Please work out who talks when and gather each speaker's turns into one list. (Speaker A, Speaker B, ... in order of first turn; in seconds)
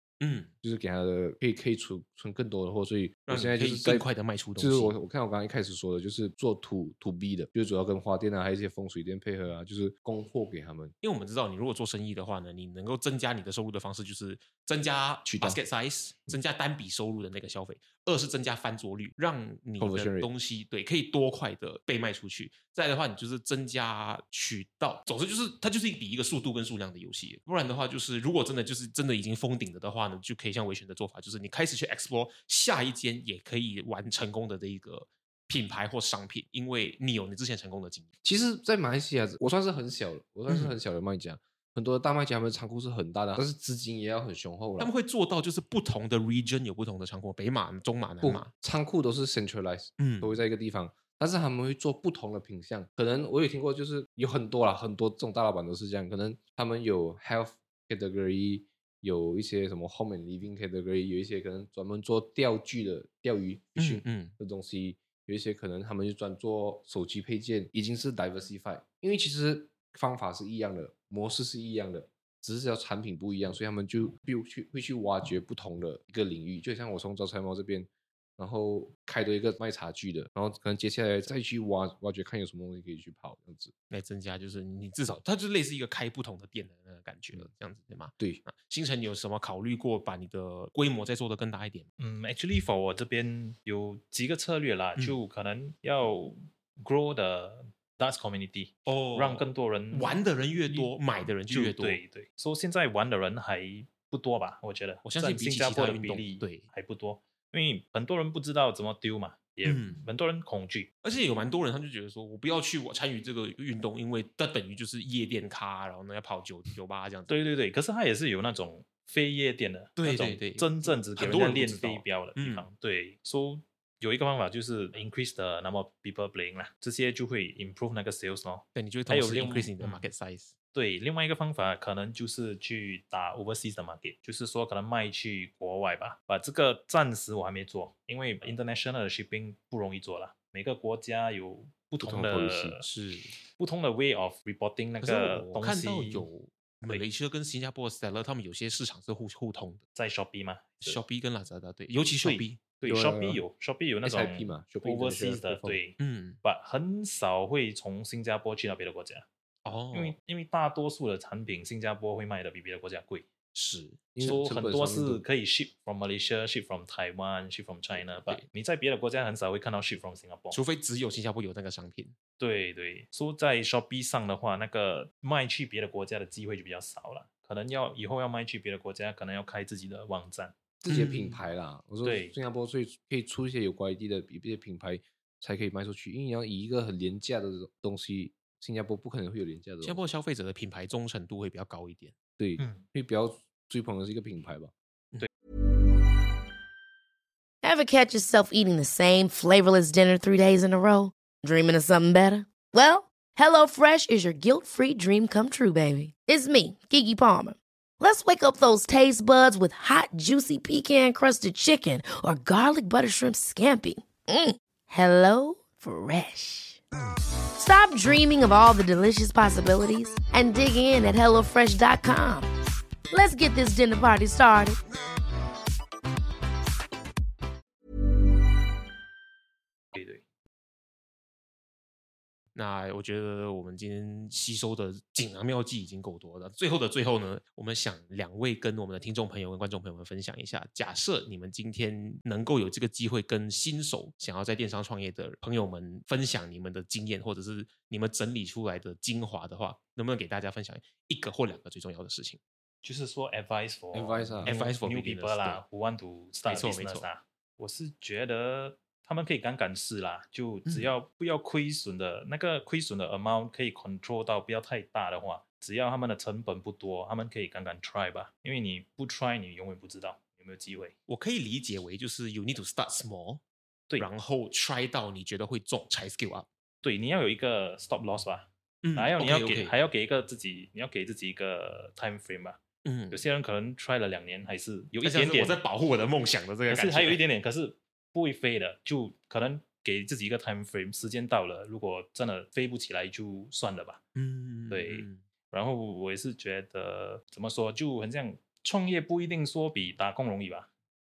Speaker A: 0.2-0.5, 3.3-4.9, 11.0-38.1, 40.5-40.8, 44.8-48.5, 50.0-50.4, 63.8-64.3, 83.9-91.9, 98.9-102.0, 105.0-106.7, 109.7-110.1, 111.0-117.3, 120.0-122.7, 128.8-130.5, 142.5-143.3, 145.0-149.8, 150.8-152.6, 156.0-156.4, 159.7-160.2, 163.5-164.0, 167.9-168.5, 170.5-172.2, 180.9-181.4, 189.8-192.1, 232.6-252.4, 254.4-255.6, 256.5-257.1, 260.7-260.9, 271.1-273.4, 274.0-276.5, 278.8-279.8, 282.9-283.3, 285.0-287.2, 294.1-295.2
Speaker B: 0.6-10.9, 15.3-15.6, 19.8-20.3, 38.2-44.9, 48.2-83.7, 142.0-142.8, 152.8-153.4, 154.0-155.8, 164.1-165.2, 180.8-190.1, 192.4-194.7, 253.9-254.5
Speaker C: 92.0-100.9, 101.5-110.9, 117.3-130.1, 130.7-142.8, 143.5-146.3, 149.9-151.0, 152.2-159.3, 159.9-163.3, 164.2-170.6, 172.4-180.6, 182.0-182.3, 192.6-192.8, 229.9-230.2, 252.8-270.9, 276.8-282.6, 283.1-285.6, 286.7-294.0, 294.7-300.7
Speaker D: 197.6-216.8, 217.6-222.5, 223.1-224.8